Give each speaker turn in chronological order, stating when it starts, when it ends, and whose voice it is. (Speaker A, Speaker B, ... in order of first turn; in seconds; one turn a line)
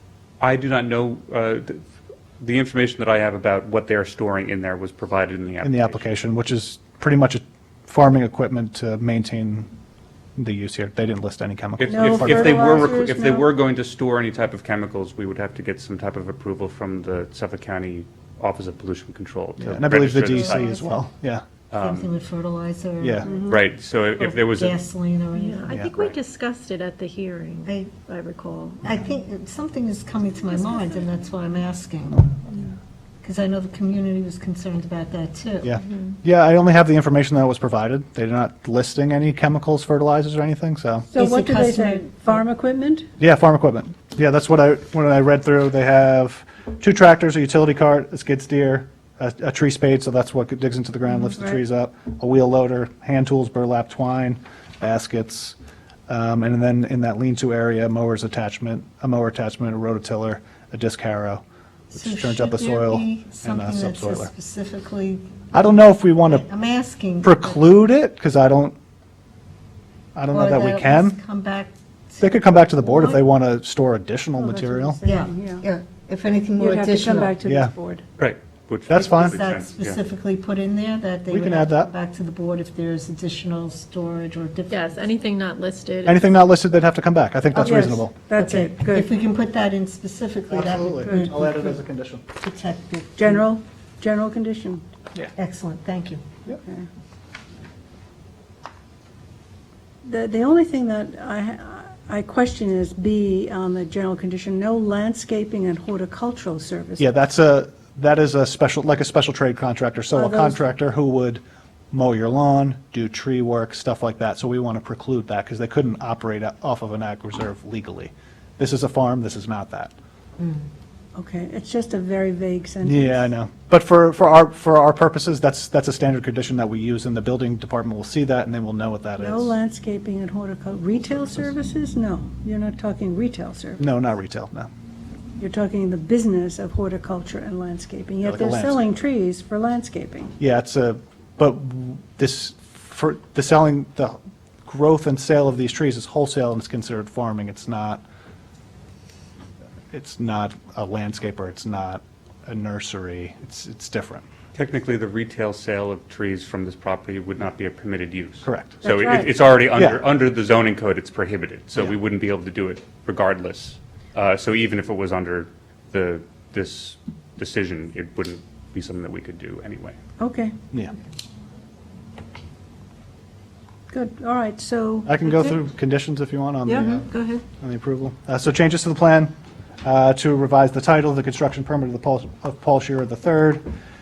Speaker A: 0.4-1.8
Speaker A: 2.4-6.0
Speaker B: 5.6-9.7
Speaker B: 10.3-12.9
Speaker A: 11.8-20.7
Speaker C: 11.9-13.5
Speaker B: 19.6-21.4
Speaker D: 20.2-21.1
Speaker A: 21.7-22.1
Speaker D: 21.8-23.5
Speaker B: 23.0-23.3
Speaker C: 23.2-23.6
Speaker A: 23.5-24.8
Speaker D: 24.2-25.8
Speaker E: 25.4-29.1
Speaker B: 25.7-26.1
Speaker D: 27.7-27.9
Speaker D: 28.8-32.5
Speaker E: 30.4-31.1
Speaker D: 33.2-35.8
Speaker B: 35.6-41.1
Speaker E: 35.8-36.2
Speaker C: 41.1-43.1
Speaker D: 41.1-42.4
Speaker B: 43.2-55.5
Speaker B: 56.1-64.3
Speaker D: 61.9-65.6
Speaker B: 65.5-66.4
Speaker D: 66.2-67.6
Speaker B: 67.2-68.8
Speaker B: 70.1-71.2
Speaker D: 70.3-73.2
Speaker B: 72.2-75.0
Speaker C: 74.4-75.6
Speaker D: 75.0-77.4
Speaker C: 76.6-78.0
Speaker B: 77.4-77.7
Speaker A: 78.2-80.0
Speaker B: 78.9-79.4
Speaker D: 78.9-85.2
Speaker B: 81.3-81.9
Speaker E: 84.7-86.2
Speaker B: 86.0-88.1
Speaker C: 87.5-89.1
Speaker D: 88.3-91.8
Speaker B: 90.5-92.2
Speaker C: 90.9-91.6
Speaker D: 92.4-93.5
Speaker C: 93.2-94.8
Speaker D: 95.4-96.2
Speaker C: 96.5-96.9
Speaker C: 100.0-107.1
Speaker B: 107.0-111.4
Speaker C: 110.1-110.6
Speaker B: 111.9-119.9
Speaker D: 120.4-120.6
Speaker C: 121.1-123.3
Speaker B: 122.8-129.5
Speaker C: 129.2-133.8
Speaker B: 133.8-134.7
Speaker C: 135.4-140.3
Speaker B: 138.2-138.8
Speaker B: 140.4-148.0
Speaker B: 149.9-154.2
Speaker A: 154.6-170.0
Speaker B: 158.4-158.8
Speaker C: 158.8-159.5
Speaker B: 159.7-160.0
Speaker C: 170.2-170.6
Speaker C: 173.9-175.6
Speaker B: 175.1-179.3
Speaker C: 176.7-177.4
Speaker B: 179.8-183.6